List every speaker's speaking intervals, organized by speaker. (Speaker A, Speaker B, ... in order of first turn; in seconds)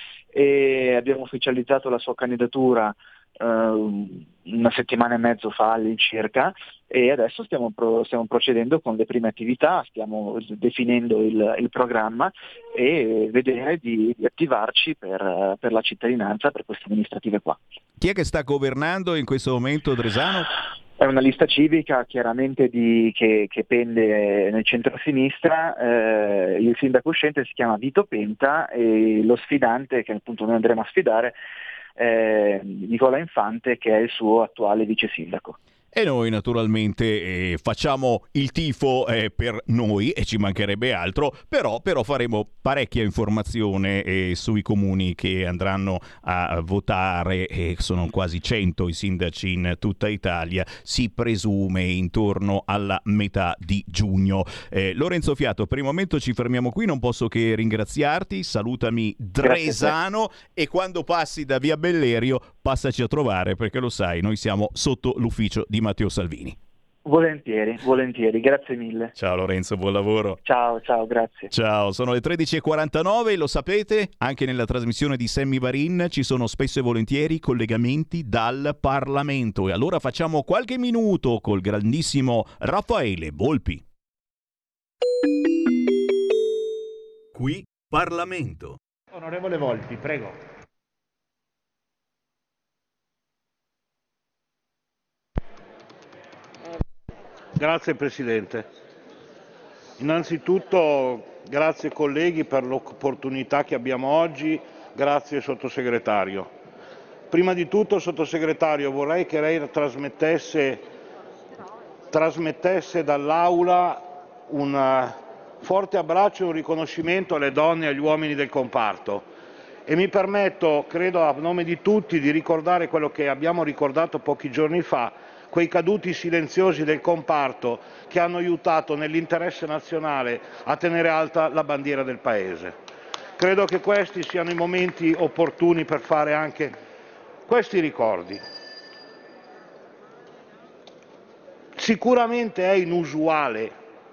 Speaker A: 0.3-17.6, 21.0-31.4, 31.9-35.6, 59.4-59.9, 67.0-69.1, 70.4-71.5
Speaker B: 18.0-20.5, 35.9-66.6, 69.2-70.4, 71.5-83.8, 87.3-88.8
Speaker C: 89.2-90.4, 97.5-98.7, 100.0-106.5, 107.3-110.8, 112.1-119.2, 119.9-132.7, 133.4-136.7, 137.5-138.4, 141.8-143.7